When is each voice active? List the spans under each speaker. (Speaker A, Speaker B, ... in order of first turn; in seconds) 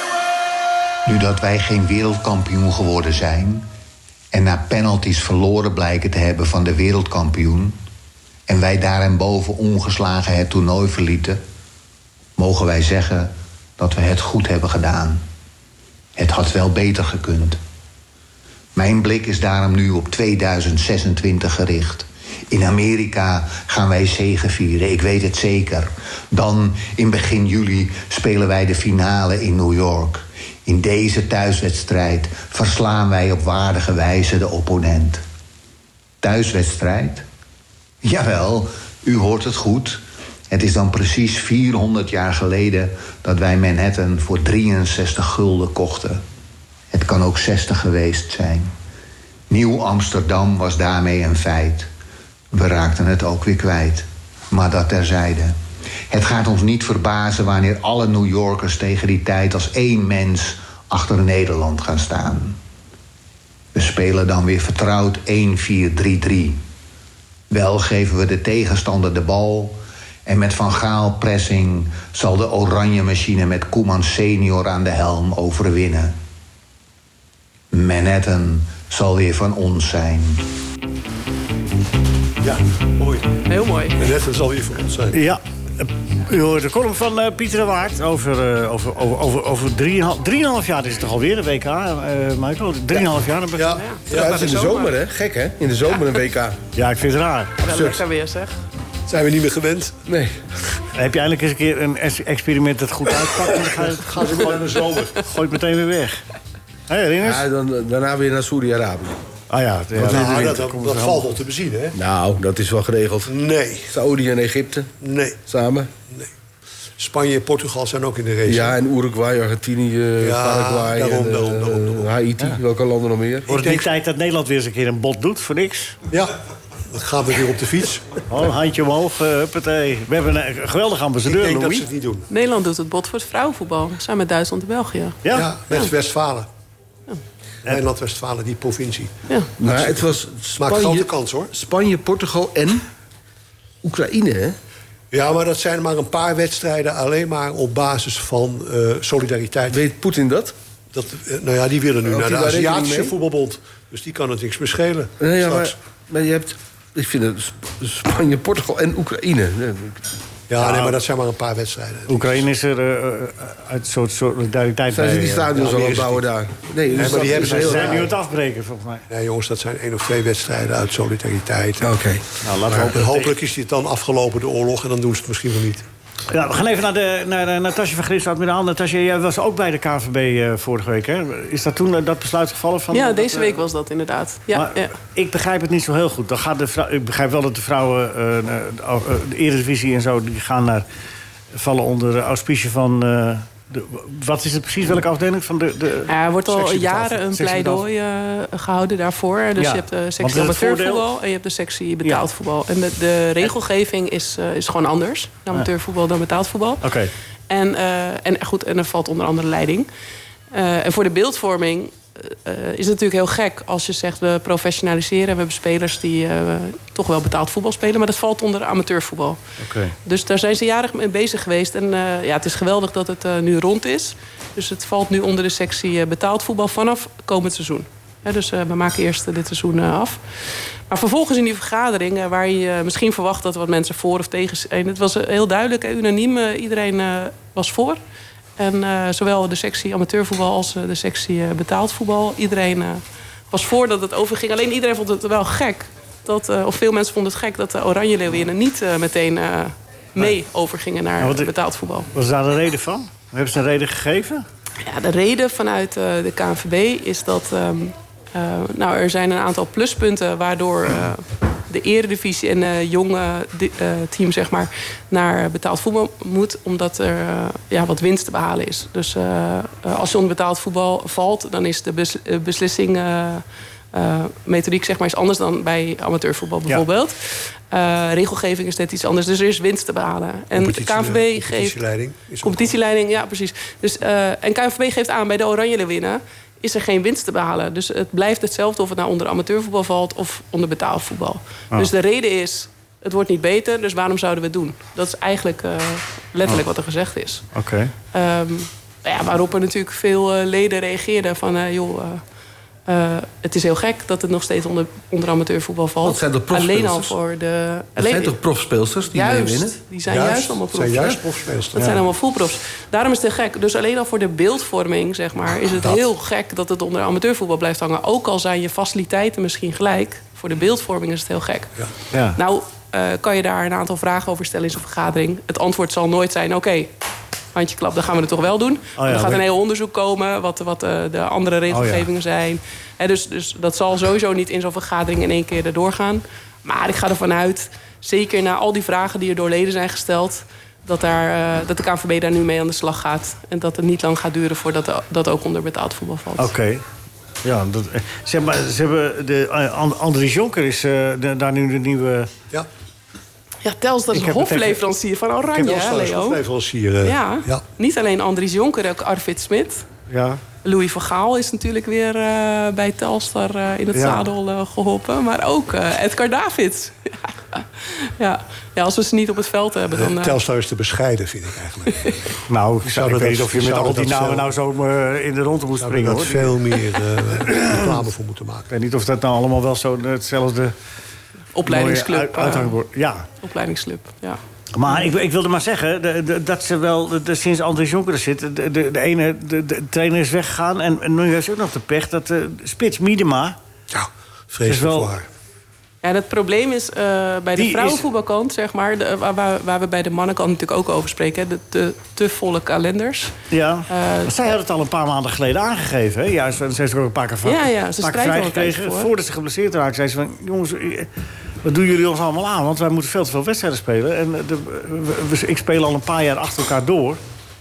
Speaker A: 1.1-3.7, 4.3-7.8, 8.5-11.4, 12.4-15.2, 16.2-17.6, 18.8-35.2, 36.2-37.3, 38.0-46.2, 46.9-48.7, 49.5-51.9, 52.5-55.6, 56.1-62.6, 63.7-66.6, 67.5-76.2, 77.7-80.5
Speaker B: 82.4-83.4, 84.0-85.2, 93.6-94.5, 97.7-98.0, 99.1-100.0, 103.8-105.2, 110.0-112.0, 113.3-114.0, 115.0-115.4, 117.0-118.8, 120.2-122.1, 123.5-123.9, 126.1-126.3, 126.9-128.2, 131.2-132.3, 135.3-136.5, 137.7-141.5, 145.1-149.8, 150.9-155.8, 160.5-162.4, 165.7-166.1, 166.9-168.1, 169.1-172.0, 172.6-175.9, 280.5-282.7, 310.1-312.0, 355.5-357.6, 369.9-372.1, 372.8-374.5, 375.8-378.7, 393.9-395.3
Speaker C: 83.5-84.0, 93.7-94.9, 97.6-98.5, 132.3-135.2, 182.9-184.9, 196.1-206.9, 207.5-209.9, 210.5-219.4, 220.1-230.2, 230.9-238.0, 238.6-252.1, 254.8-281.8, 282.4-297.4, 298.1-302.2, 302.9-308.4, 309.1-311.2, 311.8-321.7, 322.3-326.9, 327.5-346.5, 353.6-356.4, 357.0-359.9, 360.6-370.4, 371.9-372.3, 381.5-382.8, 383.4-384.4, 396.0-403.4, 403.9-404.4, 407.4-409.1
Speaker D: 85.1-93.8, 96.8-97.7, 100.9-106.2, 106.9-107.4, 109.5-111.3, 123.5-126.0, 128.3-131.9, 135.2-135.5, 160.6-161.0, 162.1-166.0, 167.0-169.1, 172.4-173.3, 176.3-183.6, 184.5-190.9, 191.5-197.8, 199.6-201.1, 206.8-207.1, 219.6-219.9, 251.2-251.5, 252.1-254.4, 297.5-297.9, 322.1-322.4, 329.0-329.4, 331.7-332.1, 346.4-346.8, 347.4-352.3, 354.1-354.8, 360.1-360.4, 363.9-364.2, 372.5-376.6, 377.5-377.8, 378.7-380.7, 381.6-383.3, 384.7-393.6, 394.7-395.1, 397.6-398.0, 403.5-411.1, 411.6-417.2
Speaker E: 94.1-96.6, 100.1-100.4, 107.2-109.2, 112.0-113.3, 113.9-114.9, 115.5-115.9, 118.5-123.5, 139.6-142.8, 143.8-144.6, 149.7-150.6, 152.1-153.1, 155.2-160.1, 164.9-168.1, 171.8-172.2, 306.0-307.2, 308.0-309.8